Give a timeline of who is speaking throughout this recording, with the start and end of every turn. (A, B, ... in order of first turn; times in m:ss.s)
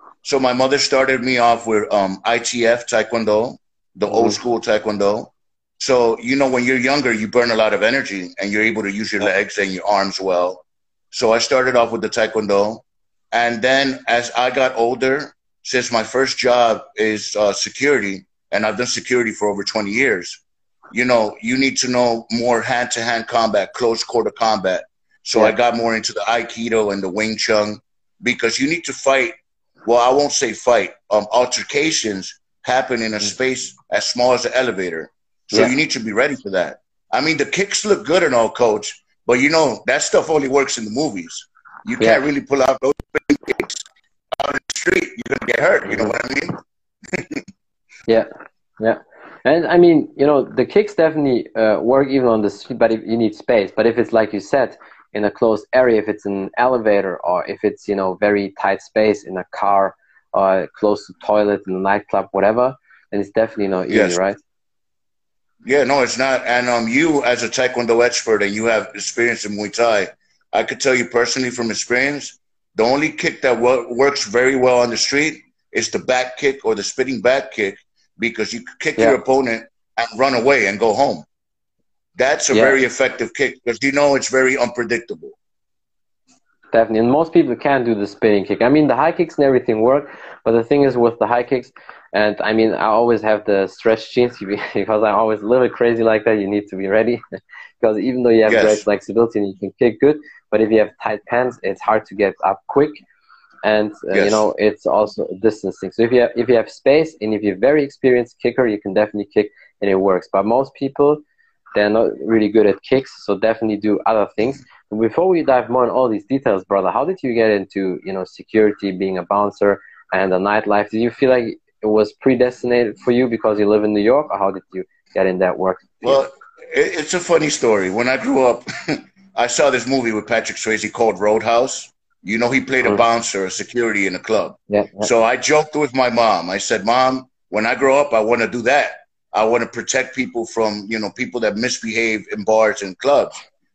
0:00.2-0:46.6 A
0:04.1-0:04.4 B
0:45.9-0:46.1 B
0:47.1-0:47.4 A
0:48.8-1:04.4 B
1:03.9-1:04.2 A
1:05.6-1:21.2 A
1:22.2-1:25.4 A
1:22.5-1:22.8 B
1:26.7-1:37.2 B
1:37.8-1:43.0 B
1:38.5-1:38.8 A
1:43.6-1:51.2 B
1:44.1-1:44.4 A
1:51.7-2:06.2 B
2:06.0-2:23.4 A
2:14.7-2:15.1 B